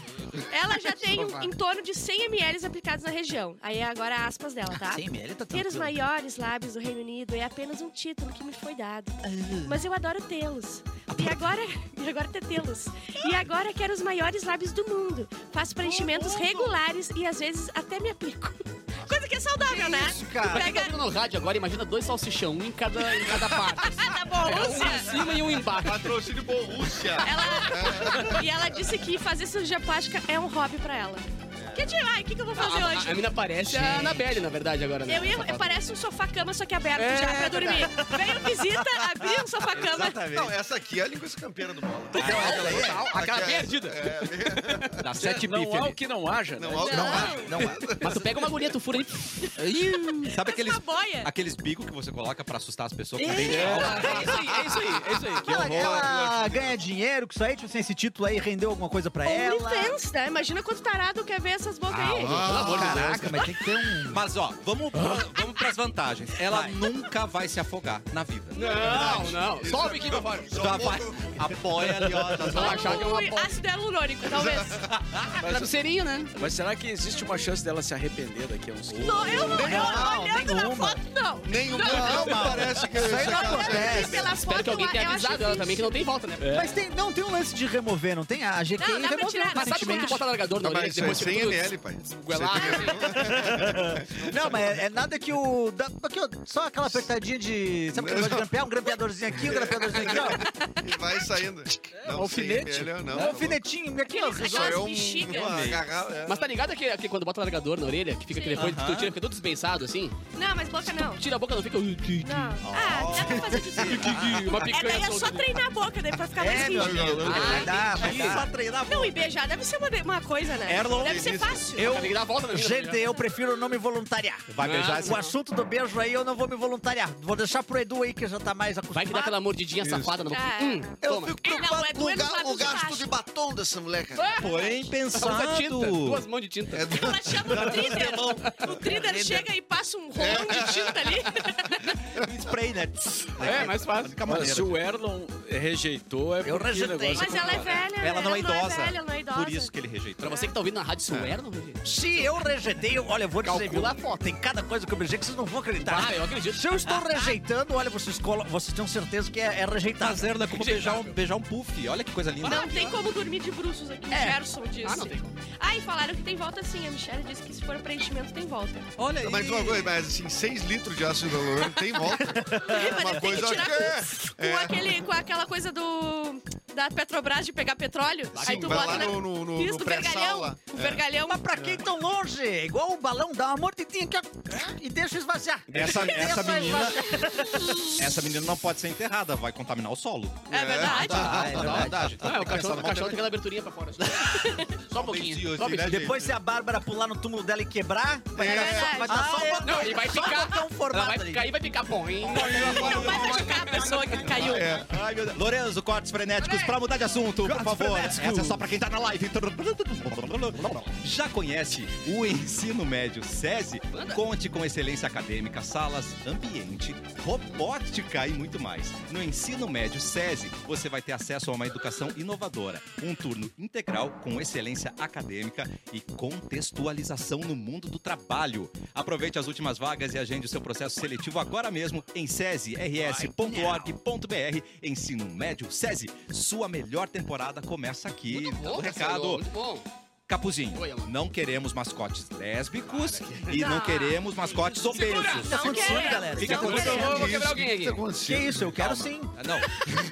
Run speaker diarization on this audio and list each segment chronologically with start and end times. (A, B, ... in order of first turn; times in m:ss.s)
0:00.4-0:21.0 A
0:01.0-0:01.5 B
0:04.7-0:05.9 B
0:09.2-0:09.8 B
0:15.8-0:16.8 B
0:19.6-0:20.7 B
0:20.5-0:26.3 C
0:23.8-0:25.2 A
0:25.8-0:28.5 D
0:27.2-0:33.2 A
0:31.6-0:31.8 D
0:32.6-0:35.8 C
0:33.6-0:34.4 B
0:35.0-0:40.2 A
0:37.6-0:38.8 B
0:39.7-0:40.5 E
0:39.9-0:45.0 D
0:42.2-0:42.4 A
0:42.2-0:43.1 B
0:42.2-0:45.9 C
0:42.2-0:42.5 E
0:45.0-0:45.9 E
0:45.2-0:47.5 F
0:46.6-0:48.5 D
0:46.8-0:47.5 A
0:46.9-0:47.9 B
0:47.6-0:49.5 C
0:49.6-0:54.6 E
0:50.0-0:51.3 A
0:53.2-0:55.4 C
0:53.4-0:54.1 F
0:53.4-0:54.4 B
0:55.4-1:00.0 B
0:55.4-0:56.6 E
0:55.6-0:56.7 D
0:59.2-1:02.6 A
1:02.1-1:03.4 C
1:02.1-1:04.2 B
1:02.2-1:03.2 D
1:04.1-1:09.2 E
1:04.9-1:05.3 C
1:06.5-1:06.8 B
1:08.5-1:10.6 C
1:08.6-1:11.5 D
1:08.7-1:08.9 A
1:10.5-1:13.1 E
1:11.8-1:12.4 B
1:12.4-1:13.6 C
1:12.5-1:14.8 A
1:14.2-1:15.0 D
1:15.1-1:15.4 E
1:15.4-1:15.8 F
1:15.4-1:16.4 C
1:16.4-1:19.9 F
1:18.9-1:19.6 E
1:19.0-1:26.0 A
1:19.5-1:21.0 B
1:19.6-1:20.1 D
1:21.4-1:24.4 D
1:21.8-1:24.3 B
1:24.1-1:26.7 C
1:26.4-1:26.7 F
1:26.5-1:30.2 B
1:28.8-1:30.2 A
1:29.5-1:33.4 C
1:30.5-1:34.8 D
1:33.0-1:40.5 B
1:37.9-1:38.5 D
1:39.4-1:43.6 D
1:41.9-1:43.3 F
1:43.1-1:44.9 B
1:44.1-1:45.6 A
1:44.4-1:46.5 D
1:45.3-1:45.9 E
1:46.2-1:50.2 C
1:48.3-1:48.6 A
1:48.6-1:49.1 E
1:50.3-1:51.2 A
1:50.9-1:52.6 C
1:52.2-1:58.2 A
1:52.6-1:54.6 E
1:53.1-1:54.4 D
1:54.0-1:55.5 C
1:56.4-1:58.5 B
1:56.5-1:57.8 D
1:57.2-1:58.4 C
1:57.9-1:59.3 E
1:58.8-2:01.9 A
2:00.6-2:01.5 E
2:00.9-2:01.7 D
2:01.8-2:03.1 C
2:01.8-2:09.4 B
2:04.5-2:05.2 E
2:04.6-2:05.3 C
2:08.9-2:11.4 C
2:10.3-2:13.1 A
2:11.0-2:14.4 D
2:14.1-2:17.4 C
2:14.4-2:16.2 E
2:16.7-2:18.1 D
2:16.9-2:22.0 A
2:17.5-2:18.7 E
2:18.9-2:19.4 B
2:20.2-2:21.3 D
2:22.1-2:24.8 E
2:23.4-2:24.2 C
2:24.2-2:27.9 F
2:26.4-2:27.6 B
2:27.1-2:29.7 A
2:27.9-2:30.3 E
2:30.2-2:32.3 C
2:30.2-2:30.5 A
2:31.8-2:40.4 B
2:33.4-2:34.2 C
2:35.8-2:37.0 C
2:40.0-2:42.9 E
2:40.5-2:41.1 C
2:42.4-2:48.9 A
2:44.1-2:44.4 B
2:44.8-2:45.3 C
2:49.0-2:49.9 E
2:49.2-2:55.0 D
2:52.2-2:53.1 B
2:52.6-3:01.4 A
2:58.4-2:59.2 C
2:58.4-3:01.0 D
3:01.3-3:08.0 B
3:01.6-3:01.8 D
3:05.7-3:07.2 E
3:07.8-3:13.2 E
3:10.5-3:11.5 A
3:10.5-3:11.8 D
3:11.0-3:12.2 B
3:11.5-3:16.0 C
3:14.2-3:14.7 A
3:14.9-3:16.4 E
3:15.8-3:21.5 B
3:18.4-3:19.2 D
3:18.4-3:20.0 A
3:19.2-3:19.5 E
3:19.6-3:24.0 C
3:22.3-3:59.4 E
3:22.3-3:24.4 B
3:22.4-3:24.8 A
3:22.4-3:23.4 D
3:24.2-3:24.9 D
3:26.4-3:26.8 C
3:27.4-3:28.6 B
3:33.9-3:34.2 C
3:53.0-3:53.9 B
3:58.3-3:59.8 C
4:00.3-4:06.8 E
4:00.7-4:01.1 C
4:02.8-4:03.7 C
4:03.5-4:04.2 A
4:04.6-4:08.0 C
4:04.9-4:07.0 A
4:05.3-4:07.4 B
4:06.4-4:08.7 D
4:08.2-4:09.4 B
4:08.7-4:09.8 E